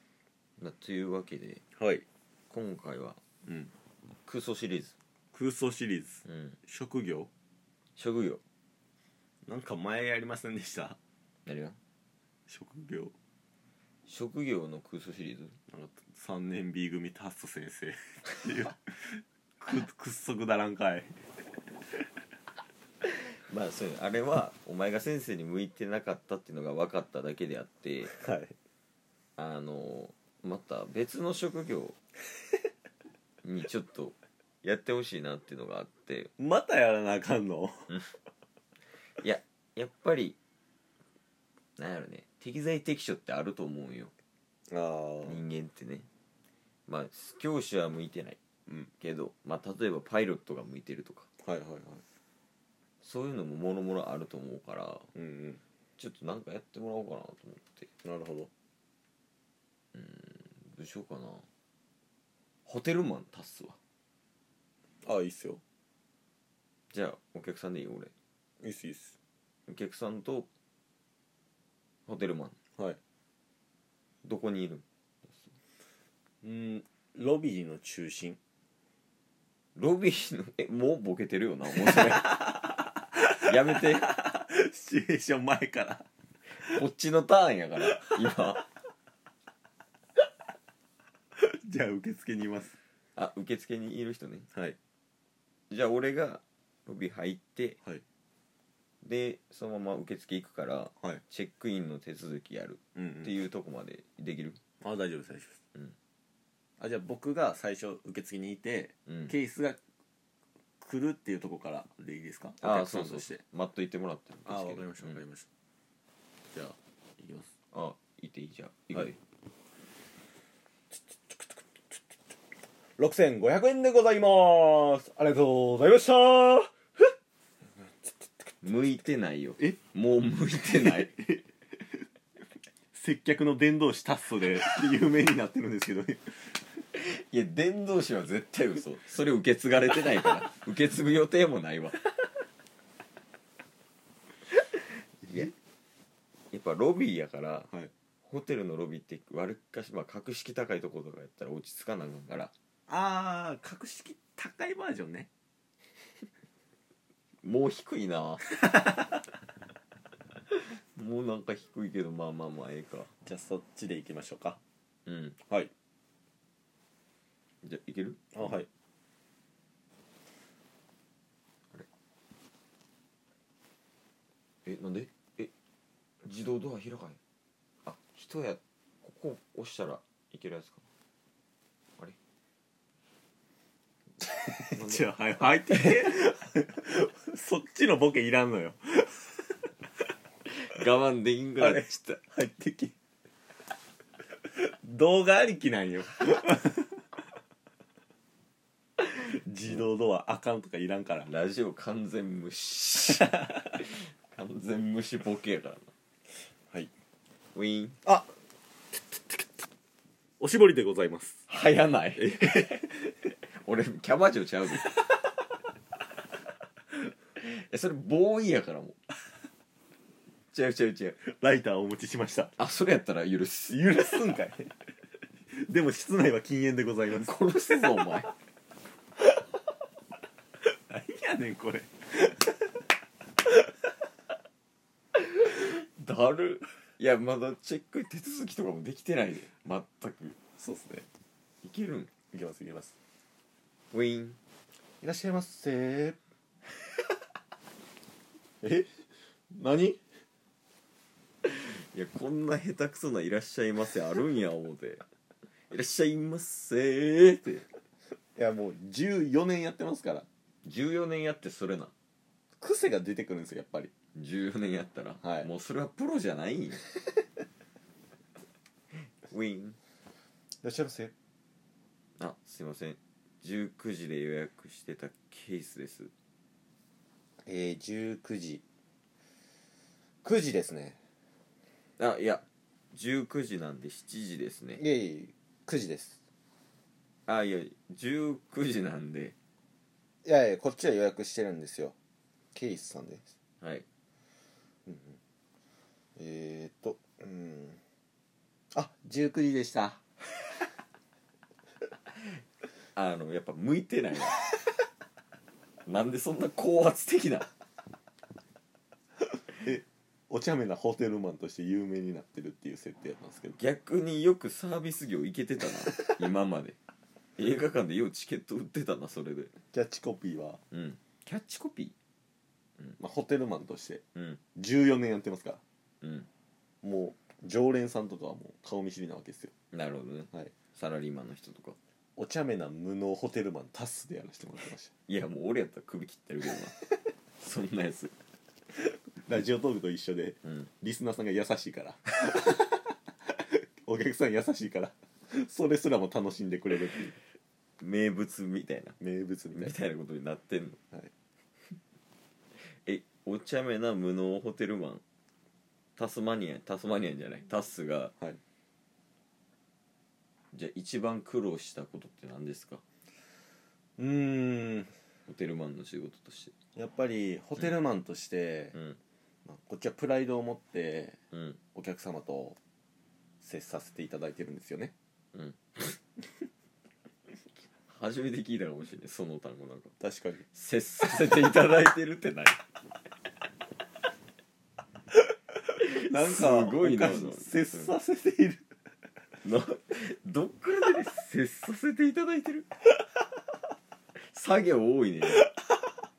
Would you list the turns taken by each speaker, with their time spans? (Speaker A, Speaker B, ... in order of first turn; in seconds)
Speaker A: 0.6-1.6, 2.5-3.2, 4.2-5.0, 6.3-6.6, 8.0-8.4, 11.5-11.8, 14.1-15.6, 23.5-28.1, 29.4-31.9, 33.4-36.3, 39.2-40.4, 41.8-44.1, 45.2-46.1, 46.9-48.4, 49.0-51.3, 53.0-55.1, 56.0-57.9, 59.9-61.5, 62.7-63.8, 66.9-68.1, 69.7-70.5, 72.1-72.6, 74.2-75.4, 79.8-82.4, 83.4-84.1, 86.6-88.7, 93.2-94.5, 95.7-97.8, 99.0-104.6, 109.1-109.3, 112.6-115.2, 117.7-119.2, 128.6-131.1, 136.9-142.0, 146.5-147.7, 148.3-152.5, 157.4-158.5, 160.7-163.1, 165.1-165.4, 167.6-168.6, 174.7-175.5, 176.2-177.2, 177.8-180.8, 184.7-186.1, 190.5-192.2, 201.3-205.9, 207.6-208.0, 211.5-215.1, 217.4-219.0, 220.5-221.2, 222.6-223.9, 227.1-228.3, 235.2-240.4, 241.6-242.1, 243.9-244.4, 251.4-255.0, 255.7-257.6, 260.6-261.9, 264.1-266.8, 269.0-269.8, 272.2-276.1, 282.0-284.8, 287.3-289.4, 302.9-304.4, 305.9-307.5, 313.6-316.8, 317.4-319.5, 320.7-321.9, 324.1-324.4, 326.0-326.3, 329.7-331.8, 335.1-336.8, 337.4-338.1, 347.8-349.0, 349.5-350.8, 352.6-355.0, 356.0-358.1, 360.5-362.8, 365.3-366.5, 371.3-371.6, 377.9-379.9, 380.5-382.6, 385.8-388.0, 389.4-392.7, 394.1-395.5
Speaker B: 1.8-2.0, 3.5-3.7, 5.3-7.3, 9.5-11.0, 12.5-13.1, 15.7-21.1, 28.2-28.5, 36.4-37.9, 44.7-45.4, 51.4-52.0, 55.1-55.6, 58.0-58.5, 65.0-65.6, 68.6-69.2, 76.4-78.4, 81.9-86.1, 86.6-86.8, 91.3-92.7, 103.0-103.3, 104.8-105.6, 106.8-109.8, 110.8-113.4, 114.5-115.5, 116.5-117.5, 120.9-122.0, 123.0-127.0, 128.0-128.5, 130.7-131.5, 132.9-136.6, 152.9-155.3, 163.2-164.6, 168.3-168.7, 184.4-189.6, 191.6-192.9, 194.6-197.0, 199.0-201.3, 208.1-208.3, 209.0-209.5, 210.4-211.4, 212.2-212.8, 221.3-222.6, 223.7-224.7, 225.5-227.8, 230.8-232.7, 240.6-241.1, 242.3-242.9, 245.0-246.2, 248.6-248.9, 249.5-250.0, 258.4-260.3, 262.6-263.9, 265.2-265.5, 270.6-271.1, 277.4-278.6, 280.2-281.0, 284.8-286.2, 290.2-291.9, 292.5-293.3, 294.9-295.2, 296.2-297.8, 298.7-300.0, 309.6-313.6, 319.7-320.6, 323.0-324.0, 324.6-325.6, 326.8-329.5, 332.2-334.9, 339.2-347.1, 349.0-349.8, 364.0-364.9, 366.8-368.8, 369.5-371.2, 371.8-372.6, 373.4-374.9, 380.0-380.4, 386.0-388.7